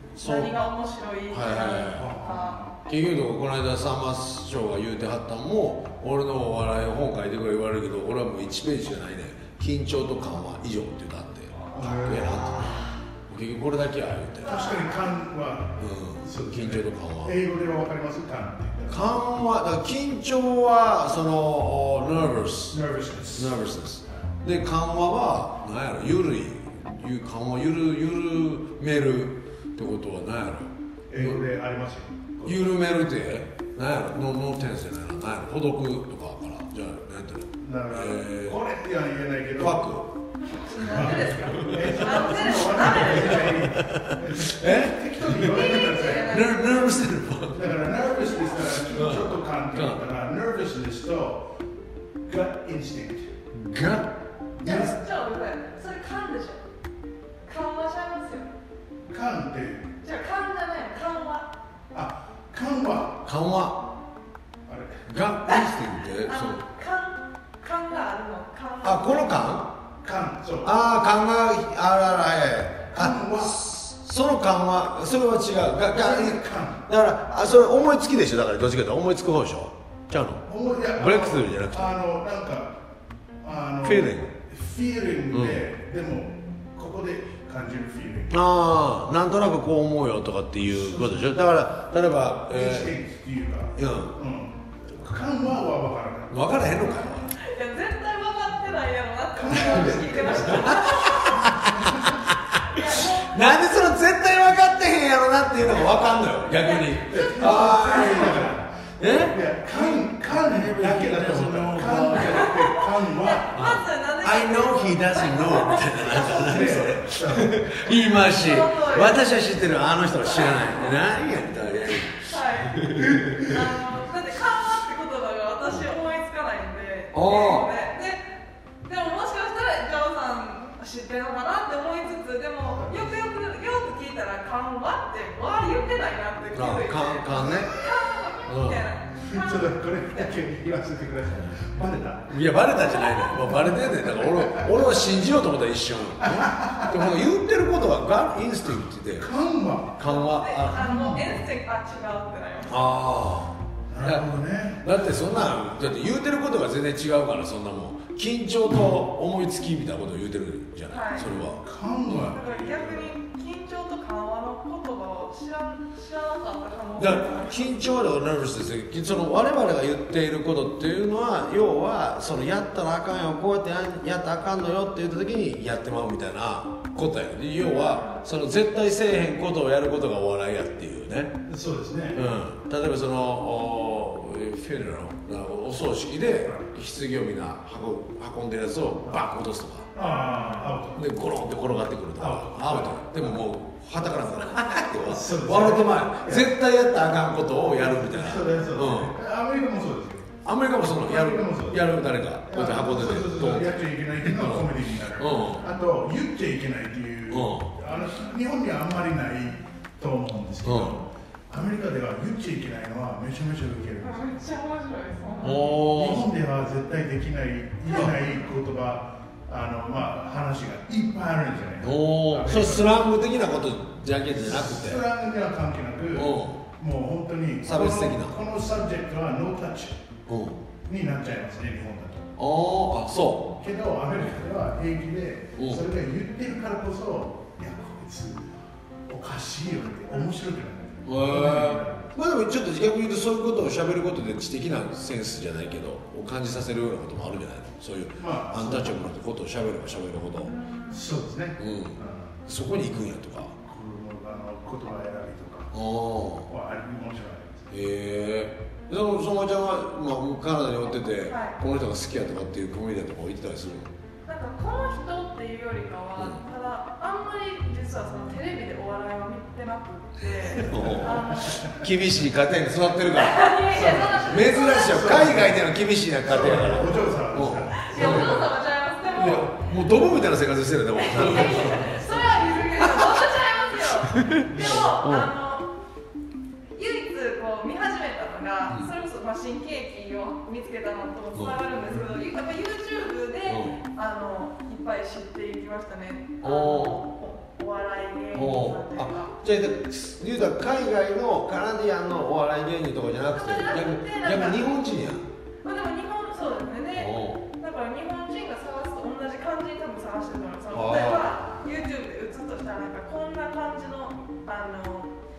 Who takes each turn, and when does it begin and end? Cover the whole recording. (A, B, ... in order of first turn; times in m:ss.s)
0:00.2-0:00.5 A
0:00.2-0:02.6 B
0:01.3-0:02.1 A
0:01.9-0:02.8 C
0:02.9-0:14.6 A
0:11.7-0:12.7 C
0:14.4-0:19.2 C
0:14.4-0:15.2 B
0:15.8-0:17.3 A
0:18.9-0:22.8 A
0:22.7-0:23.6 C
0:23.3-0:31.4 A
0:31.1-0:32.7 C
0:32.4-0:38.6 A
0:37.6-0:39.9 C
0:39.6-0:40.1 A
0:40.4-0:43.7 B
0:40.8-0:46.4 C
0:40.8-0:47.8 A
0:45.4-0:47.0 B
0:47.5-0:51.4 C
0:48.2-0:48.6 B
0:48.9-0:50.0 A
0:52.3-0:53.4 C
0:53.6-0:54.1 A
0:54.6-0:55.0 C
0:54.6-0:56.6 B
0:57.5-0:58.5 B
0:59.1-0:59.9 C
1:00.0-1:01.5 B
1:01.9-1:03.2 C
1:03.2-1:03.9 A
1:04.7-1:05.0 C
1:05.1-1:06.7 A
1:06.2-1:09.5 B
1:08.8-1:09.7 A
1:10.0-1:10.8 C
1:10.6-1:20.4 A
1:12.9-1:13.6 C
1:15.9-1:16.8 C
1:20.5-1:22.7 C
1:21.0-1:21.9 A
1:23.4-1:28.4 C
1:23.8-1:24.4 A
1:25.3-1:25.6 A
1:28.3-1:32.9 A
1:30.6-1:31.4 C
1:32.5-1:36.5 C
1:33.8-1:34.2 A
1:36.3-1:37.3 A
1:36.8-1:41.5 B
1:39.3-1:42.2 C
1:39.7-1:42.3 A
1:42.7-1:43.4 B
1:43.2-1:52.7 A
1:46.6-1:48.3 B
1:47.1-1:53.7 C
1:52.2-1:56.5 B
1:53.5-2:03.6 A
1:56.1-1:58.0 C
1:58.2-1:59.6 B
2:00.2-2:00.9 B
2:02.3-2:02.8 B
2:03.4-2:08.2 B
2:07.1-2:07.7 A
2:08.8-2:20.4 B
2:12.7-2:13.2 C
2:16.5-2:17.7 A
2:18.5-2:18.9 A
2:19.2-2:22.4 C
2:22.3-2:29.3 A
2:22.9-2:23.3 B
2:23.3-2:25.1 C
2:26.2-2:27.1 C
2:29.2-2:30.1 C
2:30.0-2:31.4 A
2:30.0-2:32.8 B
2:30.7-2:31.3 C
2:32.7-2:34.2 A
2:33.9-2:35.6 C
2:34.8-2:41.6 A
2:40.9-2:41.4 B
2:41.3-2:43.2 C
2:42.1-2:47.9 B
2:47.0-3:01.4 A
3:01.5-3:02.2 C
3:02.1-3:09.9 A
3:09.9-3:11.1 C
3:10.0-3:10.8 B
3:10.9-3:19.1 A
3:12.2-3:13.4 C
3:15.1-3:16.5 C
3:17.7-3:20.3 C
3:20.4-3:25.6 A
3:20.9-3:34.4 C
3:27.3-3:27.7 A
3:30.6-3:31.0 A
3:34.0-3:35.9 B
3:35.4-3:36.3 A
3:35.8-3:42.9 C
3:37.9-3:38.4 B
3:41.8-3:45.0 A
3:44.4-3:50.1 C
3:46.1-3:46.6 A
3:47.6-3:48.4 A
3:50.3-3:50.6 A
3:50.8-3:52.3 C
3:52.4-3:53.5 A
3:53.6-3:58.5 C
3:55.6-3:55.8 A
3:59.1-4:02.2 C
4:01.1-4:10.5 A
4:08.2-4:09.1 C
4:10.4-4:11.0 B
4:10.9-4:12.4 C
4:11.6-4:13.6 A
4:13.6-4:15.7 C
4:15.7-4:16.5 A
4:16.5-4:17.7 C
4:17.7-4:23.9 A
4:21.2-4:21.6 B
4:24.3-4:31.7 B
4:30.5-4:38.5 A
4:30.8-4:31.6 C
4:33.0-4:35.1 B
4:33.7-4:35.7 C
4:36.2-4:38.5 C
4:37.8-4:39.7 B
4:39.1-4:42.0 A
4:41.0-4:45.7 B
4:41.2-4:41.8 C
4:42.8-4:43.2 A
4:44.1-4:45.3 A
4:44.5-4:44.8 C
4:46.7-4:59.3 B
4:51.4-4:51.6 A
4:53.5-4:53.8 A
4:56.4-4:57.0 A
4:58.3-5:05.3 A
5:03.3-5:04.8 B
5:05.6-5:15.1 B
5:07.0-5:07.4 A
5:10.7-5:11.4 A